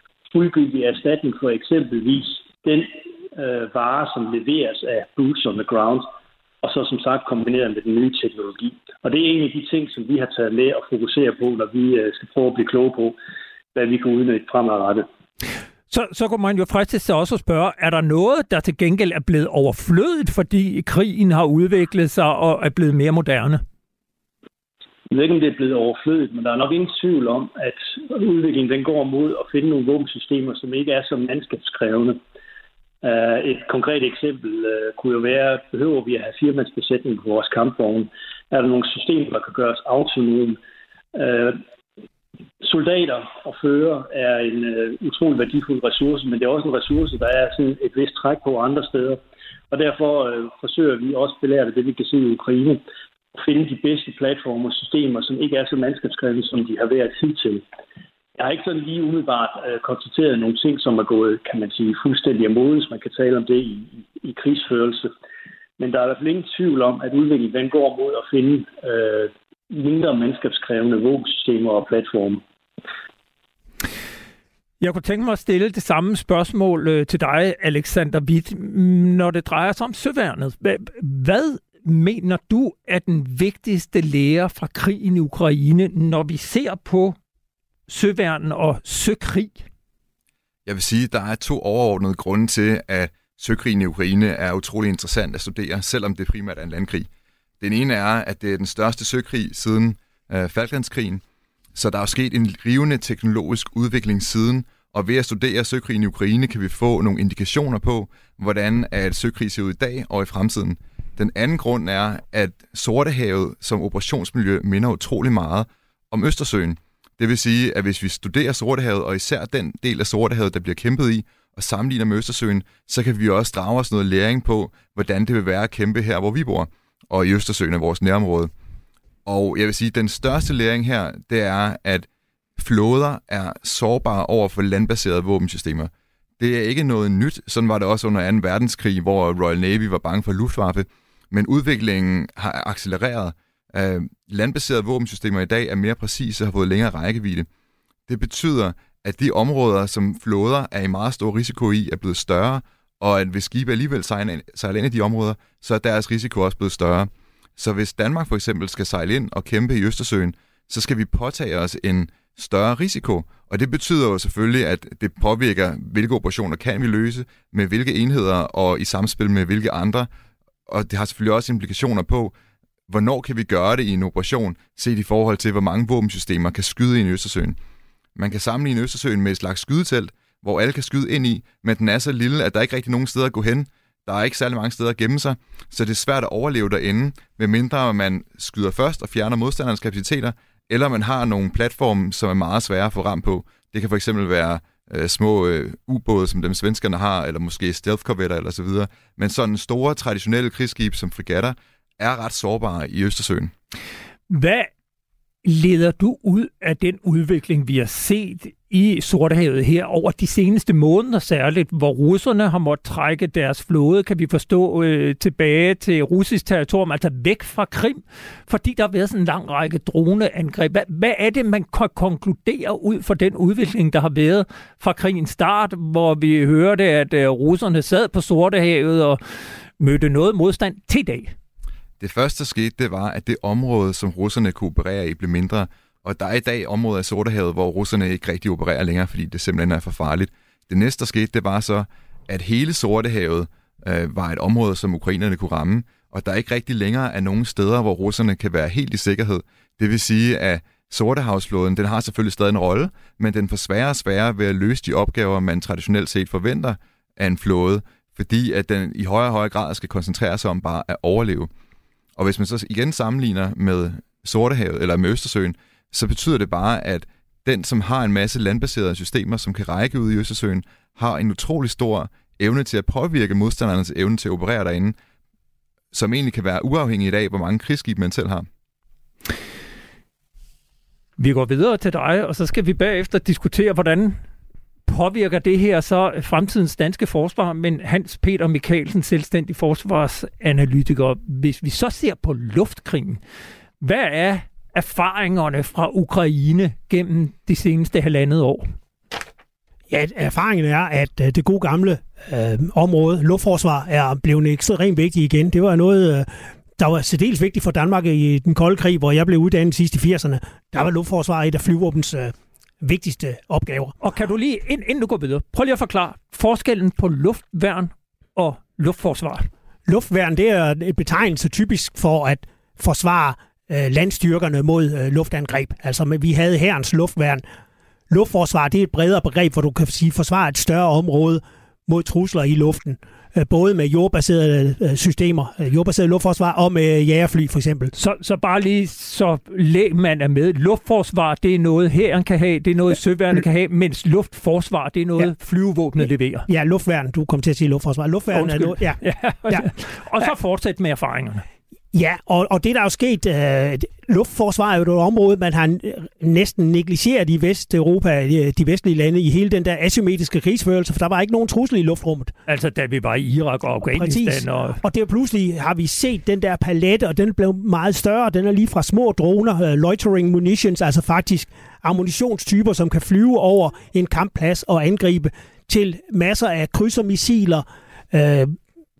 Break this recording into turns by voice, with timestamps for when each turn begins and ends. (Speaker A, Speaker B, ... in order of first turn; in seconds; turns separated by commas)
Speaker A: 0.3-6.0, Speaker A: 6.6-13.2, Speaker A: 13.7-15.1, Speaker B: 15.9-23.6, Speaker A: 25.1-32.2, Speaker A: 33.0-40.6, Speaker A: 41.1-41.6, Speaker A: 42.6-49.2, Speaker A: 49.7-52.8, Speaker A: 53.4-57.6, Speaker A: 58.4-65.1, Speaker A: 65.8-72.4, Speaker B: 74.8-87.2, Speaker B: 87.9-89.7, Speaker C: 90.7-97.1, Speaker C: 97.6-101.2, Speaker C: 101.7-128.5, Speaker C: 129.2-132.1, Speaker C: 132.6-147.5, Speaker C: 148.1-170.1, Speaker C: 170.7-172.3, Speaker C: 172.9-177.6, Speaker C: 178.2-203.5, Speaker B: 204.3-204.7, Speaker B: 205.4-231.3, Speaker C: 232.0-261.5, Speaker C: 262.2-274.9, Speaker C: 275.9-278.5, Speaker B: 281.2-284.2, Speaker B: 284.9-293.2, Speaker B: 293.8-298.7, Speaker D: 299.9-313.9, Speaker B: 314.0-319.5, Speaker D: 319.9-327.4, Speaker D: 328.1-337.9, Speaker B: 337.9-346.5, Speaker D: 346.5-349.7, Speaker B: 348.3-351.4, Speaker D: 351.9-362.3, Speaker B: 362.5-364.8, Speaker D: 363.8-378.6